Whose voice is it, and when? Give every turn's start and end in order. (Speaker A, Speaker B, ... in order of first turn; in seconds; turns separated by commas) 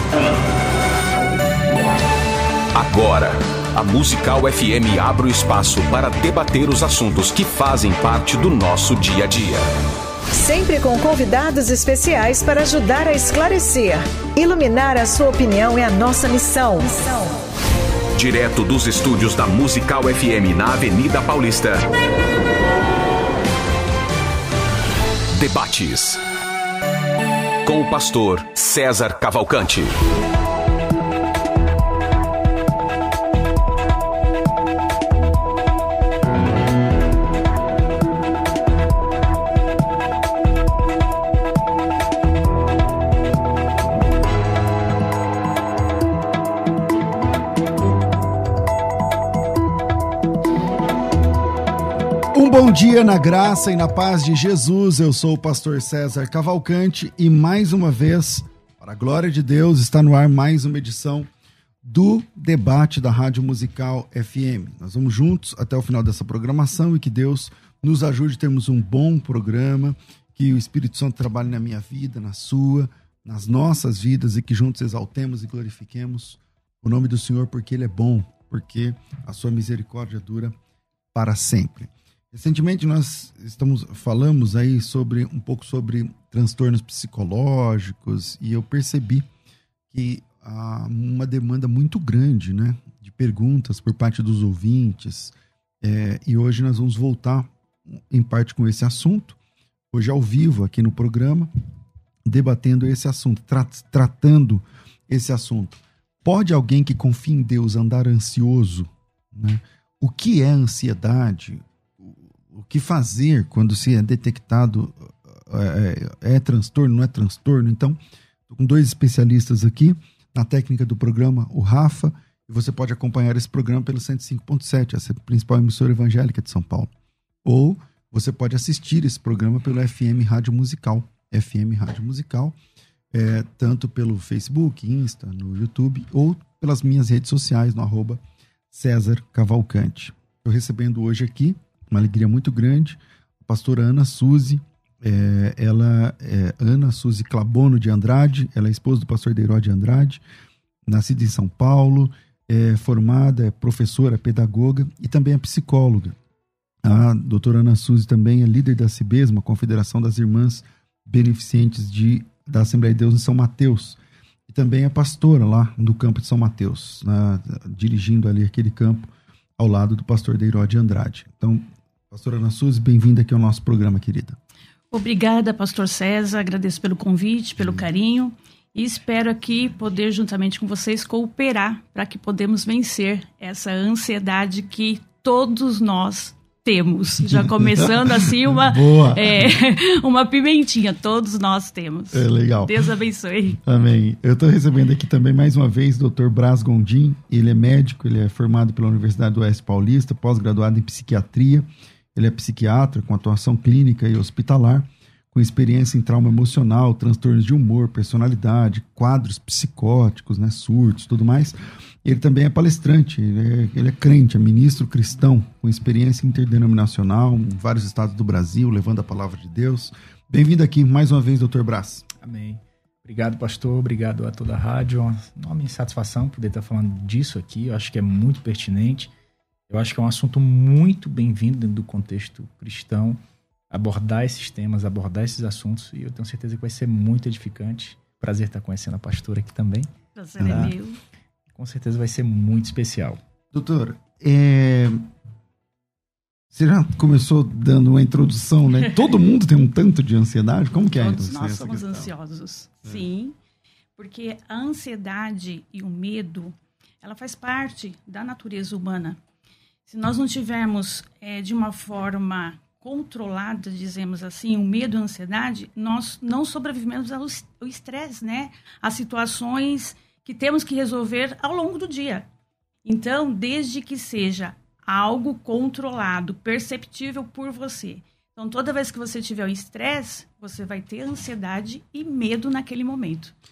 Speaker A: 2.7-9.7, Speaker B: 10.3-17.4, Speaker A: 18.2-21.9, Speaker A: 25.4-26.2, Speaker A: 27.6-29.9, Speaker C: 52.3-61.3, Speaker C: 61.8-80.5, Speaker C: 81.1-89.3, Speaker C: 89.9-99.4, Speaker C: 99.9-101.5, Speaker C: 102.3-126.9, Speaker C: 127.5-132.6, Speaker C: 133.1-150.2, Speaker C: 150.9-156.2, Speaker C: 156.8-174.4, Speaker D: 174.9-193.6, Speaker C: 177.6-177.8, Speaker C: 187.2-189.6, Speaker C: 192.1-192.8, Speaker C: 193.6-222.1, Speaker E: 222.2-229.1, Speaker E: 229.7-233.2, Speaker E: 233.7-239.9, Speaker D: 240.2-241.0, Speaker C: 240.4-240.7, Speaker E: 240.5-240.7, Speaker E: 241.6-243.2, Speaker C: 243.5-245.0, Speaker C: 246.5-252.1, Speaker D: 250.8-253.4, Speaker D: 254.0-259.2, Speaker D: 259.9-272.3, Speaker D: 272.9-283.3